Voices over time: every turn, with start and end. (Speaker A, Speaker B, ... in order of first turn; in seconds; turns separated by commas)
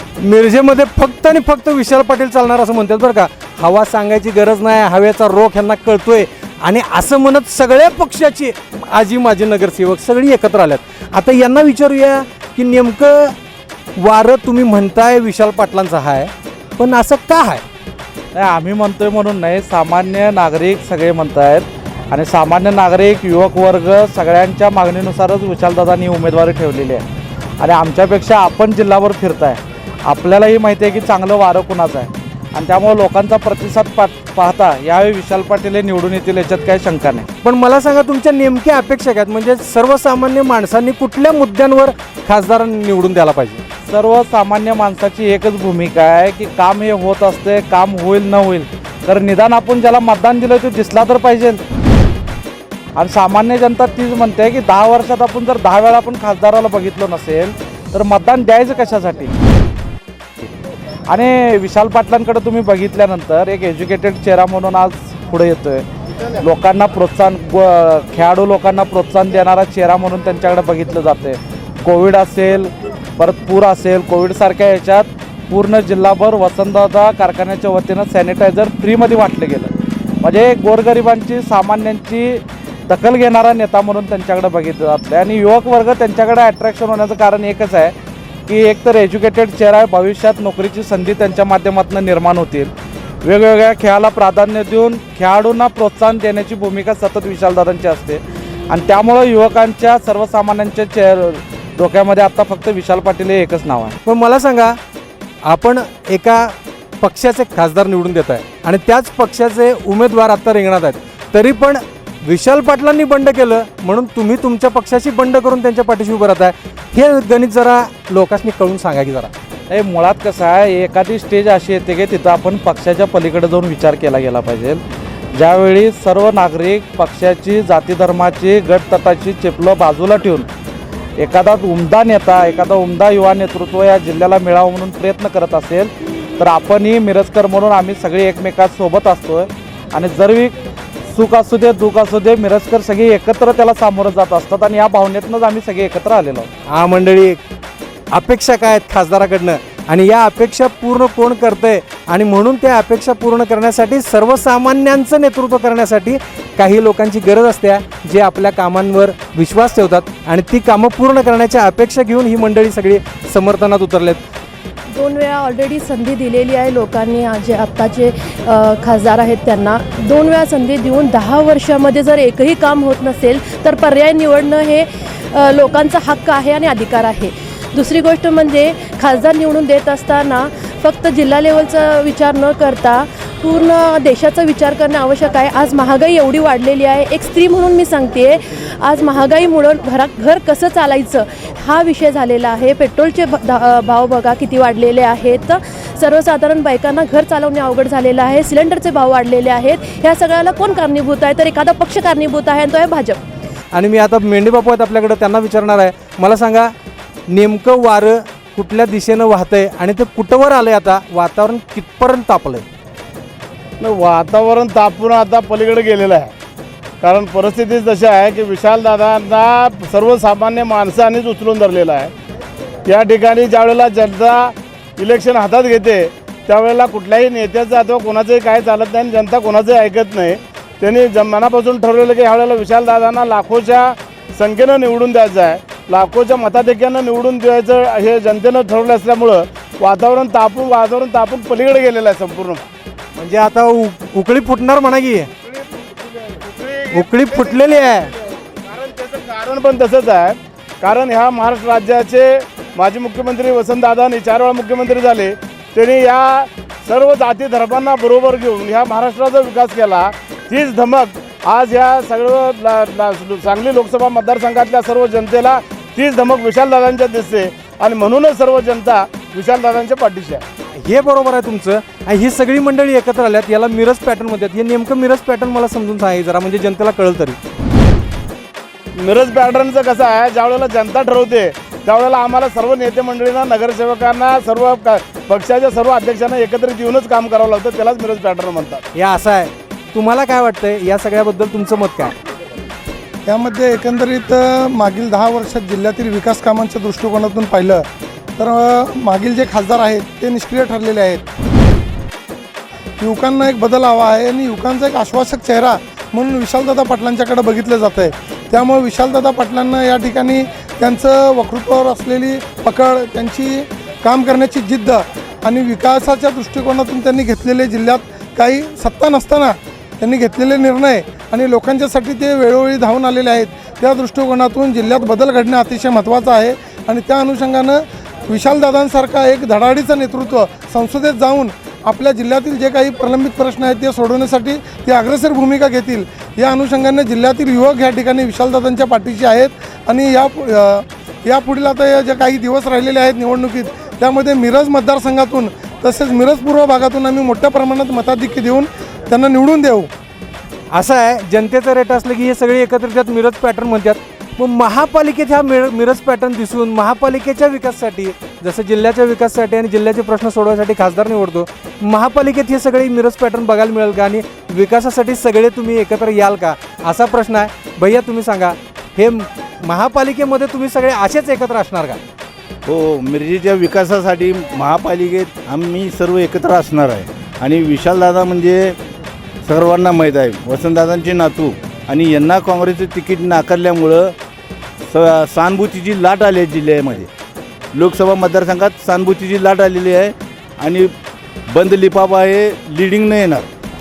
Speaker A: 0.2-13.3, Speaker A: 14.0-17.6, Speaker B: 18.3-27.0, Speaker B: 27.6-37.3, Speaker A: 37.4-43.6, Speaker B: 43.9-51.6, Speaker B: 53.0-59.3, Speaker B: 61.1-65.8, Speaker B: 66.4-87.9, Speaker B: 88.5-92.7, Speaker B: 93.2-104.0, Speaker A: 104.0-104.8, Speaker A: 105.5-119.3, Speaker B: 119.7-124.8, Speaker B: 125.3-130.5, Speaker B: 131.2-140.6, Speaker B: 141.1-146.5, Speaker A: 146.7-147.4, Speaker A: 148.1-164.2, Speaker C: 164.9-203.2, Speaker A: 203.7-206.7, Speaker A: 207.3-212.6, Speaker D: 213.8-216.3, Speaker D: 217.0-222.1, Speaker D: 222.9-242.6, Speaker A: 243.2-245.3, Speaker D: 246.4-247.0, Speaker A: 246.9-248.1, Speaker D: 248.7-270.4, Speaker A: 270.8-277.4, Speaker D: 279.0-288.8, Speaker A: 288.9-292.1, Speaker E: 293.3-297.9, Speaker E: 298.4-301.2, Speaker E: 303.0-349.9, Speaker A: 350.7-372.0, Speaker F: 372.7-378.7, Speaker F: 379.4-384.1, Speaker F: 384.9-387.1, Speaker F: 387.8-390.9, Speaker F: 391.5-393.5